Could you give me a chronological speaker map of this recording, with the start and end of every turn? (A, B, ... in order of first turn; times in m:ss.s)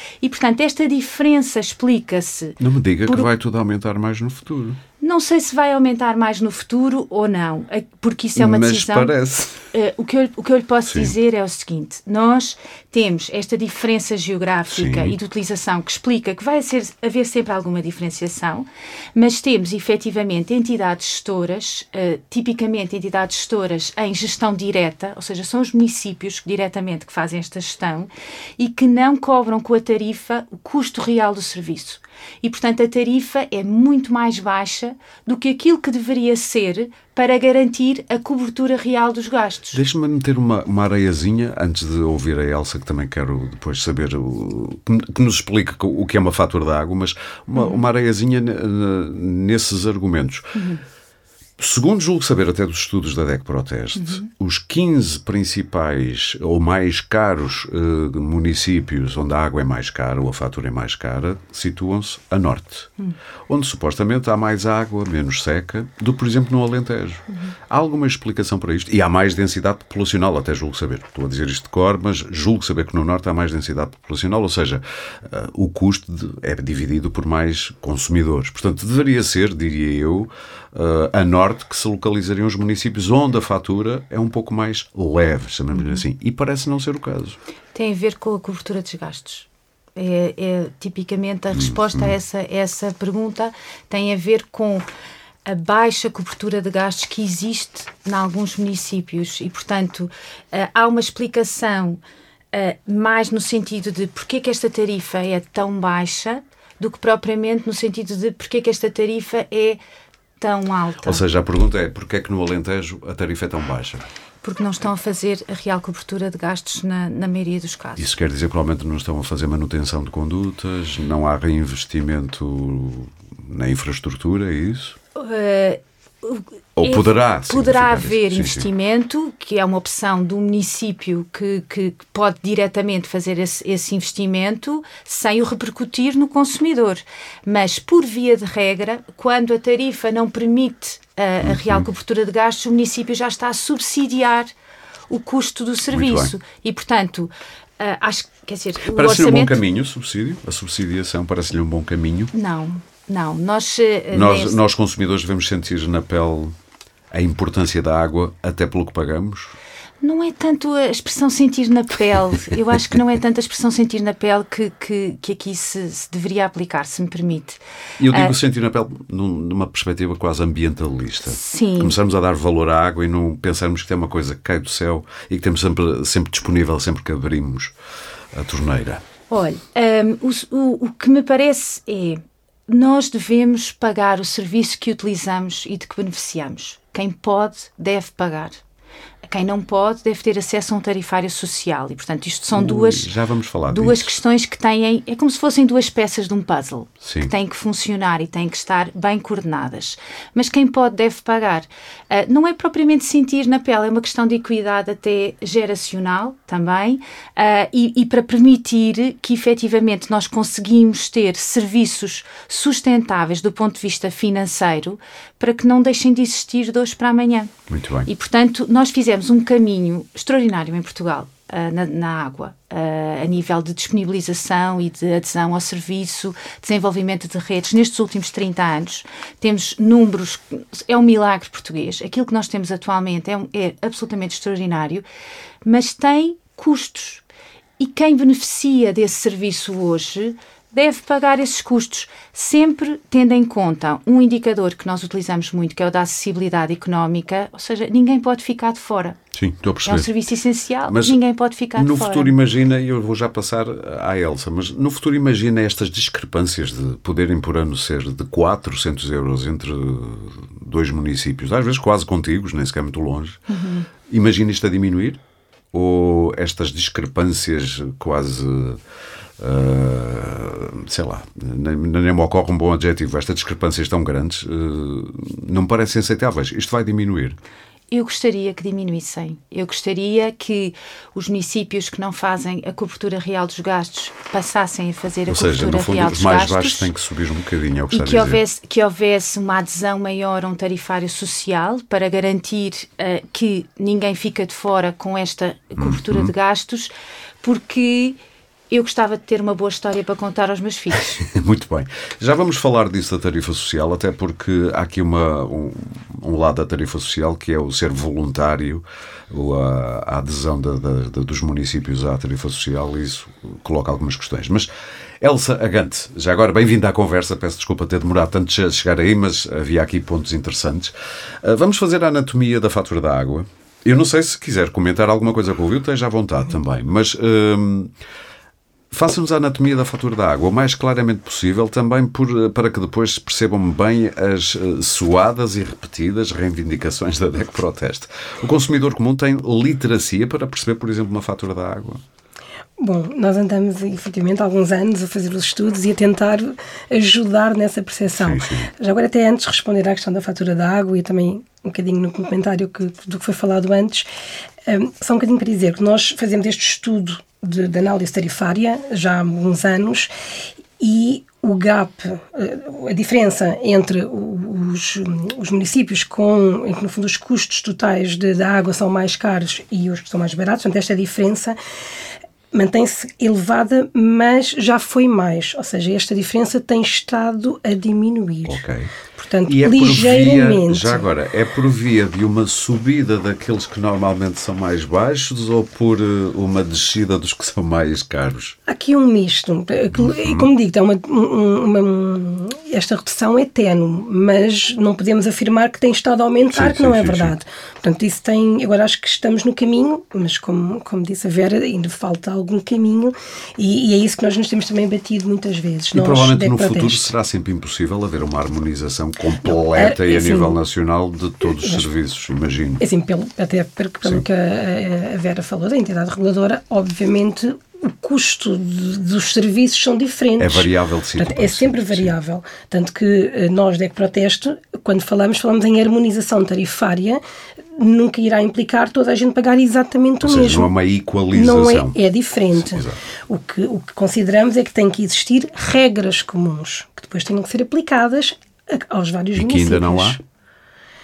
0:00.2-0:03.3 A
0:02.6-0:04.8 B
0:05.0-0:09.1 A
0:08.4-0:09.7 B
0:09.7-0:39.8 A
0:10.9-0:11.1 B
0:14.7-0:15.2 B
0:39.7-0:50.5 B
0:47.6-0:47.8 A
0:50.5-0:50.8 A
0:51.6-1:02.9 B
0:54.0-0:54.3 A
1:03.5-1:27.4 B
1:25.8-1:26.0 A
1:27.8-1:34.9 A
1:31.5-1:32.1 B
1:35.5-1:42.0 A
1:42.5-1:49.8 A
1:50.4-1:51.2 A
1:51.0-1:54.0 B
1:54.4-1:58.1 A
1:58.0-2:05.0 B
2:05.2-2:24.5 A
2:06.8-2:08.7 B
2:21.4-2:21.9 B
2:25.1-2:29.6 A
2:25.9-2:26.3 B
2:28.8-2:32.3 B
2:32.3-2:34.6 A
2:34.1-2:36.6 B
2:37.1-2:39.6 B
2:40.0-2:48.3 A
2:48.0-2:57.7 B
2:51.3-2:52.0 A
2:58.3-2:59.0 B
2:59.3-3:08.6 A
3:09.2-3:13.1 A
3:12.5-3:14.2 B
3:13.7-3:37.5 A
3:17.0-3:17.3 B
3:37.7-3:38.1 B
3:38.1-3:55.0 A
3:55.6-3:57.2 A
3:57.8-4:09.2 A
4:09.3-4:10.2 B
4:09.8-4:12.4 A
4:10.9-4:11.2 B
4:11.8-4:23.4 B
4:23.5-4:23.9 A
4:24.1-4:25.2 B
4:25.7-4:28.8 B
4:29.4-4:37.4 B
4:37.9-4:46.9 A
4:45.3-4:48.4 B
4:47.9-4:56.9 A
4:55.8-4:56.3 B
4:57.4-4:58.2 A
4:58.7-5:01.2 A
5:01.2-5:14.7 B
5:15.2-5:27.9 B
5:28.9-5:42.0 B
5:42.8-5:54.1 C
5:48.2-5:48.7 B
5:54.7-6:00.1 C
6:00.8-6:11.6 C
6:12.5-6:18.6 C
6:18.5-6:18.9 B
6:19.2-6:21.1 C
6:19.5-6:28.6 B
6:28.7-6:47.1 C
6:29.9-6:30.5 B
6:36.5-6:37.3 B
6:45.9-6:52.8 B
6:49.6-6:50.6 C
6:51.6-6:51.9 C
6:52.8-7:07.2 C
7:00.4-7:02.2 B
7:07.8-7:10.7 C
7:10.2-7:12.0 B
7:11.3-7:20.2 C
7:12.6-7:13.0 B
7:19.4-7:20.2 B